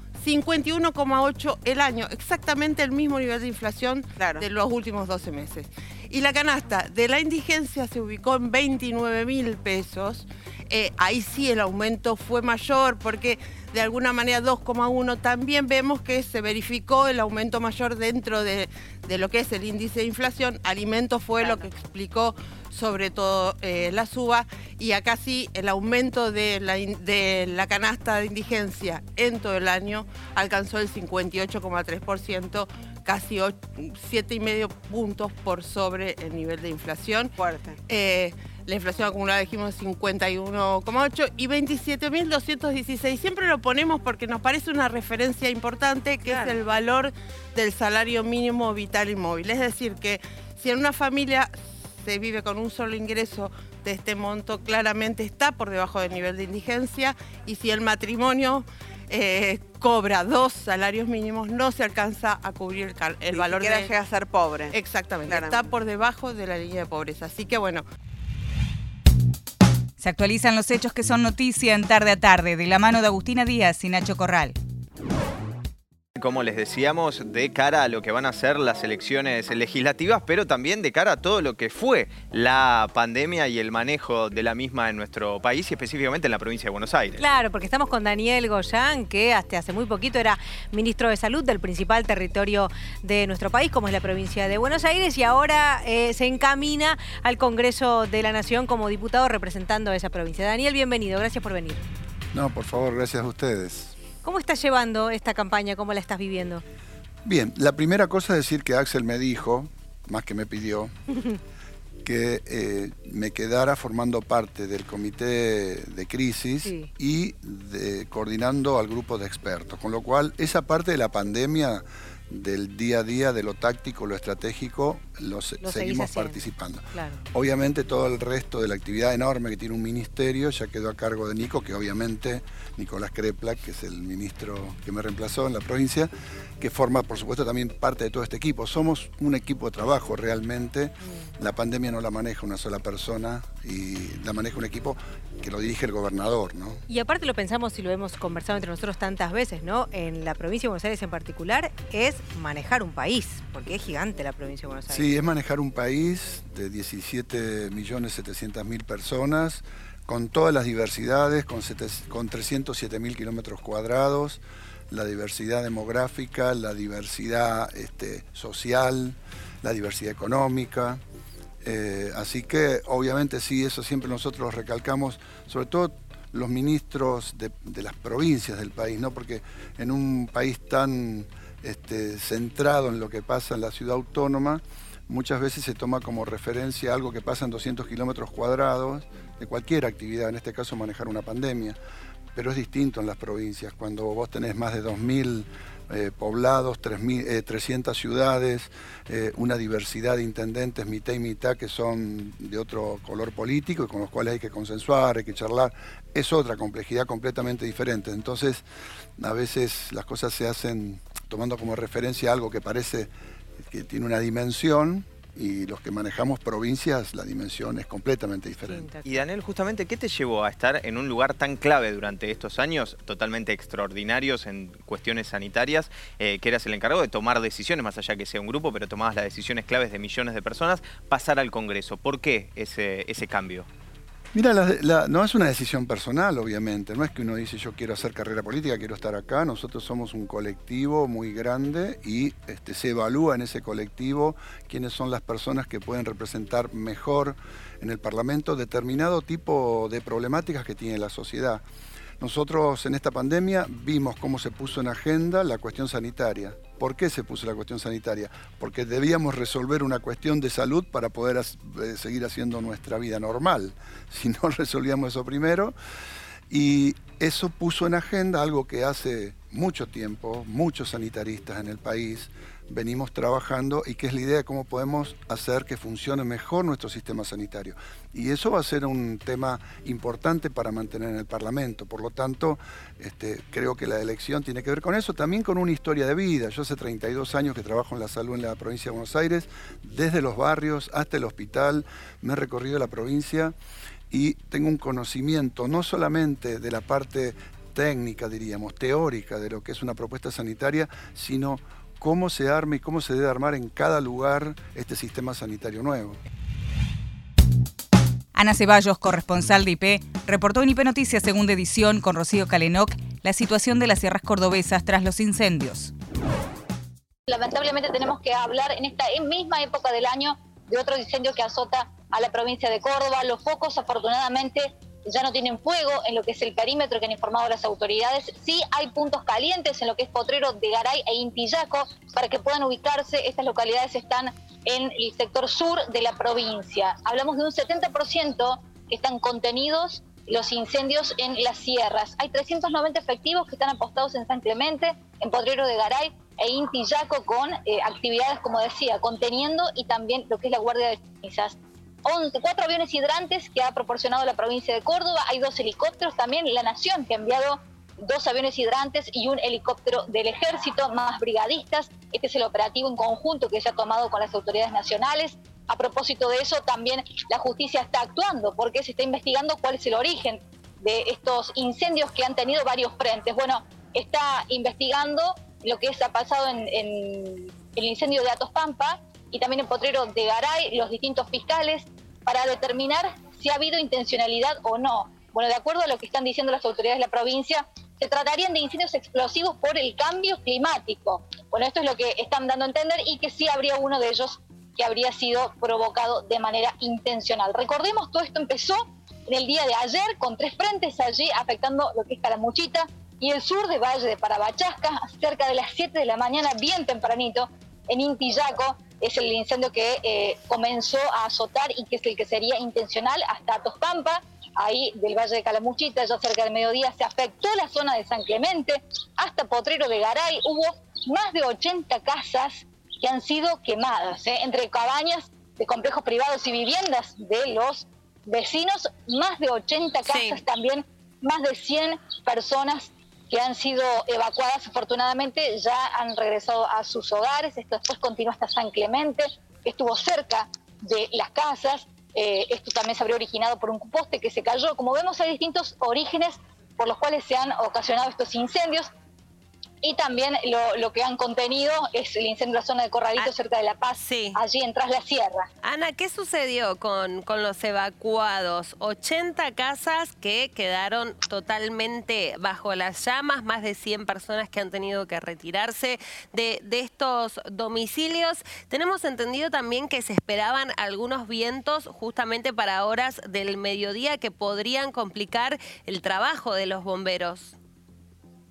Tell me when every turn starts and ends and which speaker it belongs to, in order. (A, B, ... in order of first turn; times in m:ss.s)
0:00.2-0:37.3 A
0:04.2-0:04.4 B
0:21.4-0:21.7 B
0:37.4-0:37.8 B
0:37.9-1:03.9 A
0:46.2-0:46.6 B
1:03.3-1:04.7 B
1:04.7-1:07.8 A
1:05.2-1:05.6 B
1:10.0-1:14.6 C
1:16.1-1:27.2 D
1:27.2-1:41.8 E
1:42.3-1:44.0 F
1:44.2-1:46.6 E
1:47.2-1:50.9 F
1:52.0-2:26.8 F
1:56.6-1:56.9 E
2:05.6-2:06.4 E
2:06.9-2:07.2 E
2:26.9-2:35.1 E
2:34.9-2:51.0 F
2:51.6-3:11.8 F
3:12.3-3:28.6 F
3:29.2-3:38.9 F
3:38.6-3:39.2 E
3:39.0-3:53.7 D
3:54.3-4:11.6 F
4:12.2-4:25.8 F
4:26.5-4:53.5 F
4:54.1-5:06.2 F
5:08.3-5:15.9 C
5:17.3-7:28.9 G
7:10.0-7:10.4 H
7:29.8-7:35.4 G
7:33.9-7:34.4 H
7:35.6-7:57.6 H